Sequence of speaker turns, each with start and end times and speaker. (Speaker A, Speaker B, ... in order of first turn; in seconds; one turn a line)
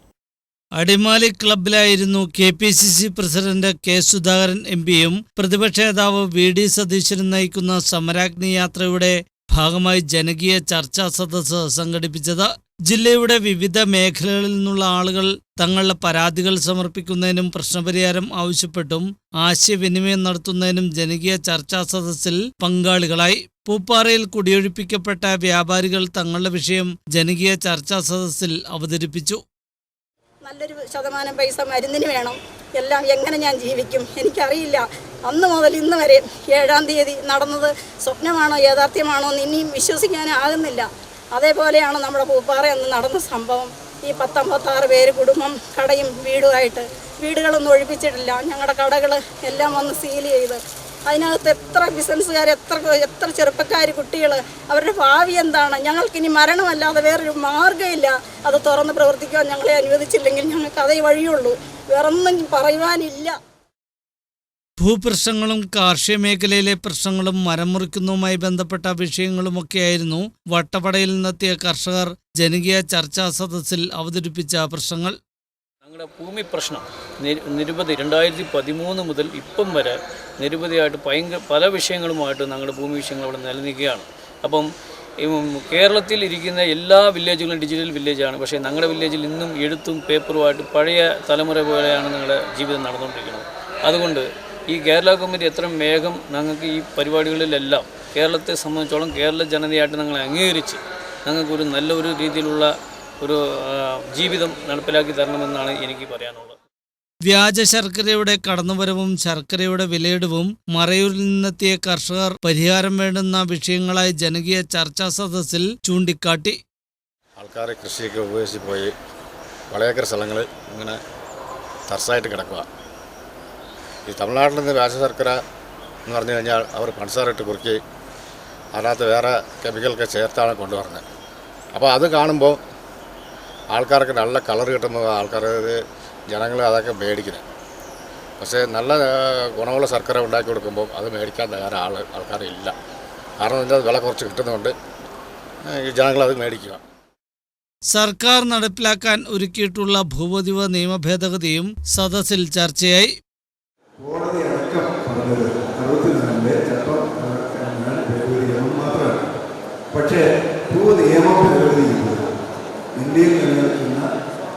Speaker A: 0.7-29.4
Speaker B: 30.4-63.3
Speaker A: 64.8-75.1
Speaker C: 75.8-84.7
Speaker C: 85.2-102.7
Speaker C: 103.2-106.5
Speaker A: 107.2-116.6
Speaker D: 117.3-118.9
Speaker D: 119.7-121.0
Speaker D: 121.9-122.7
Speaker D: 124.1-125.4
Speaker D: 126.1-127.8
Speaker D: 128.7-131.0
Speaker D: 131.7-132.6
Speaker D: 133.7-137.4
Speaker D: 138.4-142.7
Speaker D: 143.4-144.7
Speaker D: 145.6-146.8
Speaker A: 147.9-153.1
Speaker E: 154.0-159.1
Speaker E: 159.9-162.3
Speaker E: 162.9-164.1